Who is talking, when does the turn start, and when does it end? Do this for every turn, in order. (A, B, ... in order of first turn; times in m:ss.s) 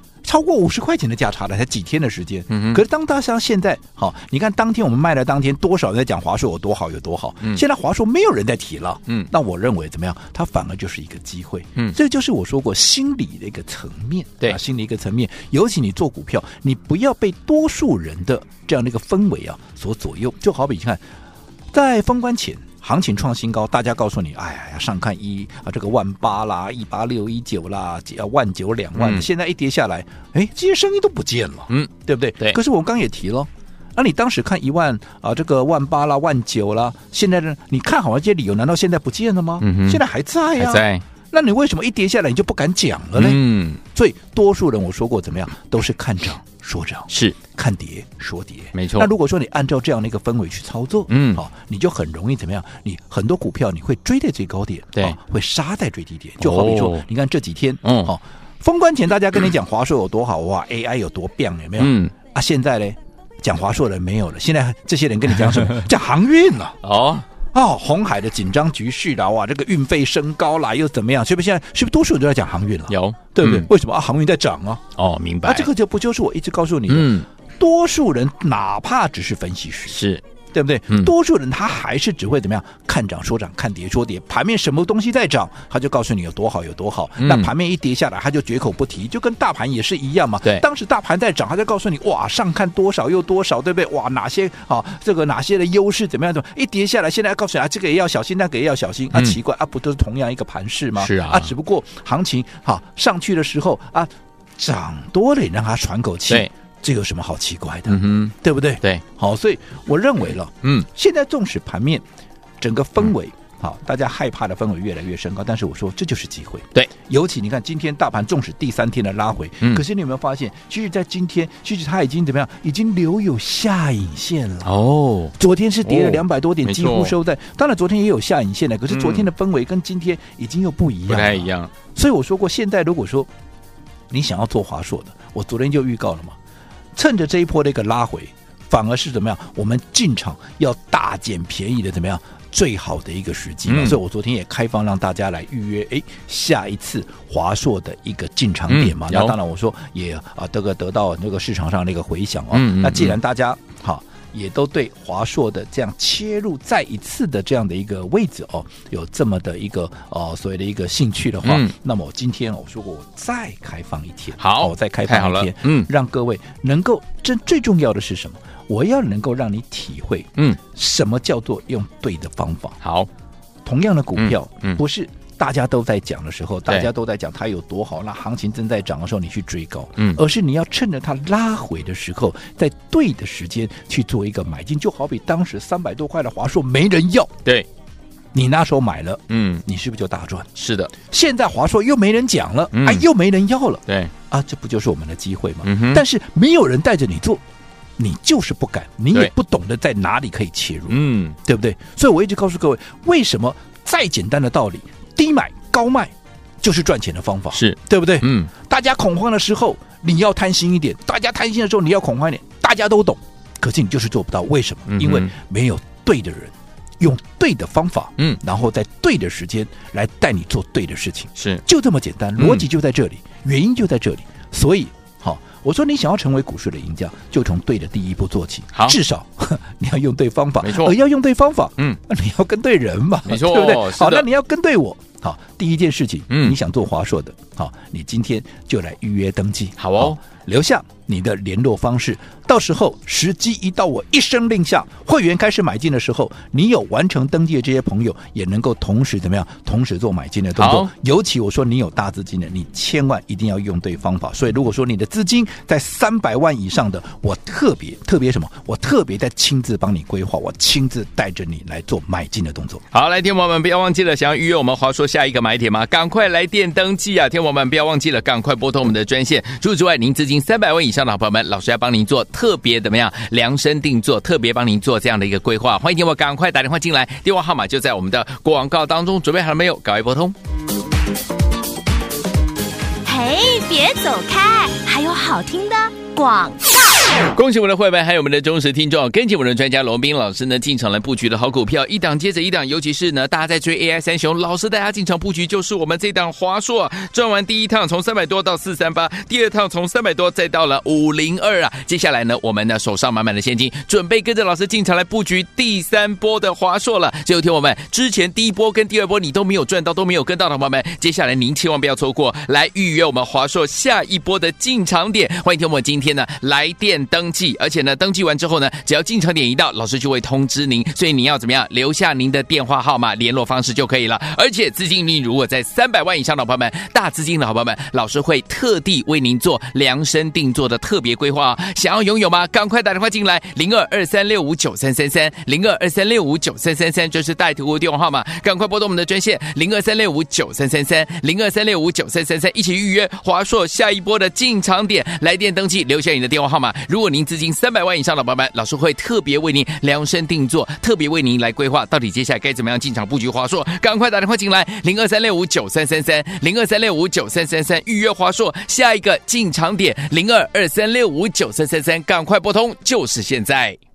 0:00.2-0:21.0 A
0:02.5-0:02.8 B
0:21.7-1:06.8 A
0:29.0-0:29.3 B
0:31.7-0:32.6 B
0:39.6-0:40.0 B
0:40.6-0:41.0 B
0:43.2-0:43.8 B
0:47.1-0:47.4 B
0:48.7-0:49.1 B
0:51.1-0:51.4 B
0:56.4-0:57.1 B
0:57.8-0:58.1 B
1:01.8-1:02.1 B
1:06.8-1:07.3 B
1:07.5-1:14.8 A
1:12.9-1:13.7 B
1:15.0-1:15.7 B
1:15.4-1:52.0 A
1:16.9-1:17.3 B
1:19.9-1:20.2 B
1:27.2-1:27.5 B
1:41.0-1:41.5 B
1:47.9-1:49.0 B
1:52.6-2:04.7 A
2:04.6-2:07.2 B
2:05.4-2:13.3 A
2:08.9-2:09.3 B
2:11.1-2:11.7 B
2:14.1-2:16.4 A
2:17.0-2:52.8 A
2:23.7-2:24.0 B
2:28.7-2:29.4 B
2:32.5-2:33.2 B
2:41.4-2:41.7 B
2:44.4-2:45.9 B
2:52.8-2:53.1 B
2:53.6-3:07.3 A
2:54.2-2:54.8 B
3:00.0-3:00.2 B
3:08.3-3:17.4 A
3:09.3-3:09.6 B
3:10.6-3:10.9 B
3:12.7-3:13.1 B
3:13.9-3:14.1 B
3:15.6-3:16.0 B
3:18.0-4:22.8 A
3:20.9-3:21.4 B
3:27.5-3:28.5 B
3:34.9-3:35.3 B
3:41.4-3:41.6 B
3:42.4-3:42.7 B
3:50.6-3:51.0 B
3:53.3-3:54.3 B
3:56.3-3:56.6 B
3:59.8-4:00.2 B
4:10.6-4:10.9 B
4:22.9-4:40.4 B
4:43.0-4:47.0 C
4:47.3-6:03.8 B